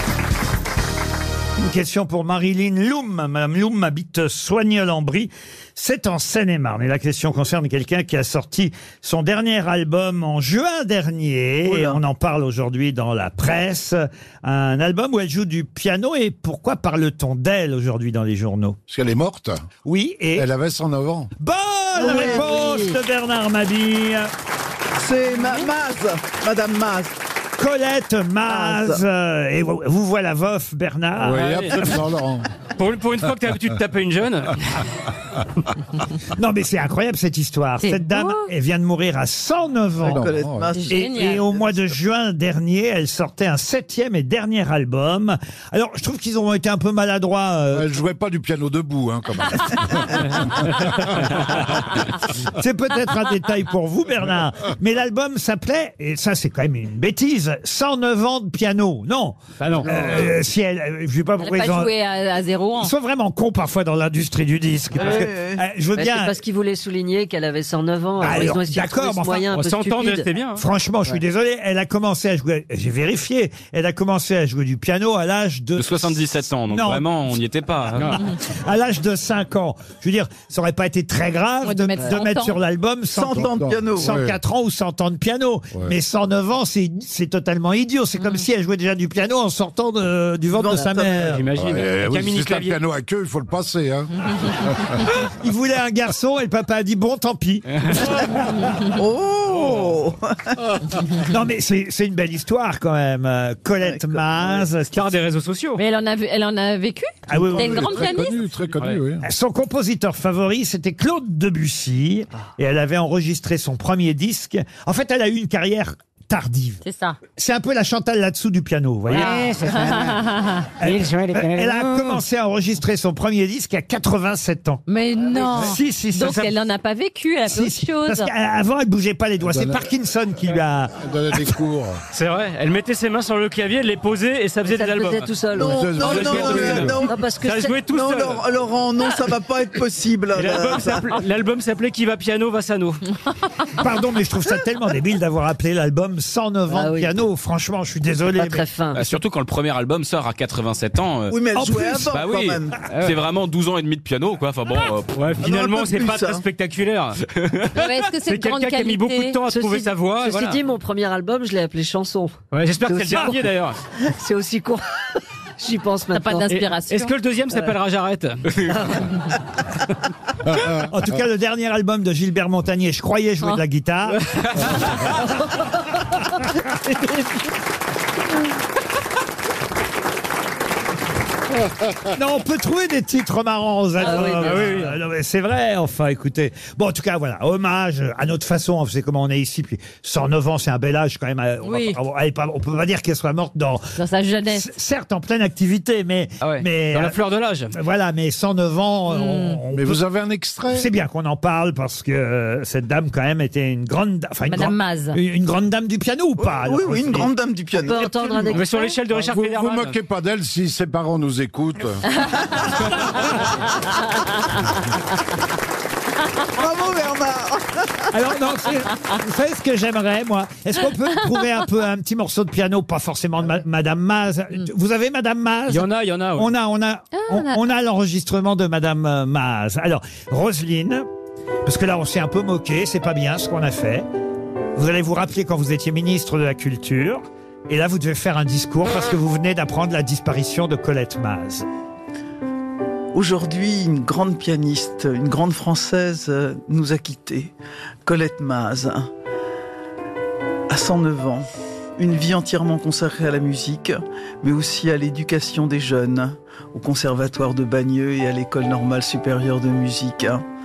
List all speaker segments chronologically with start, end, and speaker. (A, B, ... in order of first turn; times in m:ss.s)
0:01.6-0:18.8 A
0:11.6-0:12.0 B
0:18.9-0:19.6 C
0:19.8-0:20.5 A
0:20.4-0:21.3 C
0:21.4-0:24.3 A
0:21.9-0:23.0 D
0:22.0-0:22.4 B
0:25.0-0:27.2 B
0:27.6-0:31.6 A
0:28.4-0:29.0 B
0:31.2-0:32.5 C
0:31.5-0:31.9 E
0:32.8-0:34.8 E
0:36.3-0:40.3 A
0:37.8-0:38.5 F
0:40.0-0:41.7 B
0:40.1-0:40.7 C
0:40.7-0:41.5 F
0:40.9-0:47.9 A
0:47.7-0:50.6 C
0:52.5-1:01.9 A
0:59.6-0:59.9 E
0:59.9-1:00.3 C
1:01.4-1:02.9 F
1:02.8-1:06.4 A
1:05.0-1:05.6 B
1:06.0-1:10.3 D
1:08.2-1:09.4 A
1:09.5-1:10.6 E
1:10.6-1:17.1 A
1:15.8-1:18.2 G
1:18.0-1:18.2 E
1:18.1-1:31.4 A
1:21.6-1:22.6 F
1:23.1-1:24.2 B
1:23.3-1:24.4 C
1:30.5-1:31.3 B
1:31.2-1:32.8 E
1:31.5-1:34.1 C
1:34.6-1:34.9 C
1:35.2-1:38.7 A
1:38.9-1:40.3 B
1:39.6-1:39.8 E
1:41.3-1:45.2 A
1:43.8-1:44.2 B
1:44.9-1:45.8 E
1:45.8-1:48.4 F
1:47.3-1:48.2 A
1:47.3-1:49.2 C
1:49.2-1:56.8 A
1:56.8-1:57.2 F
1:57.4-1:59.4 A
1:59.1-2:00.8 F
1:59.1-2:02.2 E
2:00.8-2:04.8 A
2:04.9-2:08.3 F
2:05.4-2:06.5 A
2:07.5-2:11.6 A
2:09.4-2:09.8 C
2:11.0-2:12.0 C
2:12.1-2:15.3 E
2:14.7-2:17.8 D
2:15.6-2:17.0 C
2:15.6-2:17.2 B
2:16.0-2:16.9 E
2:17.4-2:18.5 E
2:17.9-2:21.1 B
2:20.3-2:23.0 E
2:23.8-2:28.6 A
2:26.7-2:27.1 D
2:28.4-2:29.0 D
2:29.0-2:31.4 G
2:31.3-2:32.8 B
2:31.6-2:32.1 A
2:32.1-2:35.1 G
2:32.9-2:33.2 E
2:35.1-2:37.2 E
2:35.4-2:36.4 B
2:37.8-2:39.4 F
2:38.2-2:40.6 E
2:39.5-2:44.9 D
2:42.5-2:43.8 E
2:45.6-2:46.6 D
2:46.1-2:47.2 F
2:46.5-2:48.8 E
2:48.7-2:49.1 D
2:50.8-2:54.2 A
2:54.6-2:55.0 E
3:02.1-3:13.9 A
3:04.0-3:04.8 D
3:04.2-3:04.9 E
3:11.6-3:12.0 F
3:14.0-3:14.7 F
3:14.5-3:17.2 A
3:16.4-3:17.8 E
3:17.7-3:20.0 A
3:19.1-3:19.6 F
3:19.7-3:20.9 C
3:20.7-3:27.3 A
3:24.5-3:25.2 F
3:26.4-3:28.7 B
3:27.8-3:28.7 D
3:28.5-3:30.0 E
3:29.0-3:32.0 C
3:32.2-3:32.8 F
3:36.6-3:37.9 B
3:38.1-3:51.1 A
3:45.7-3:46.5 E
3:47.1-3:47.6 F
3:51.6-3:54.1 A
3:54.8-4:01.7 A
4:03.1-4:07.5 B
4:08.0-4:09.1 B
4:10.7-4:11.5 B
4:12.0-4:20.4 B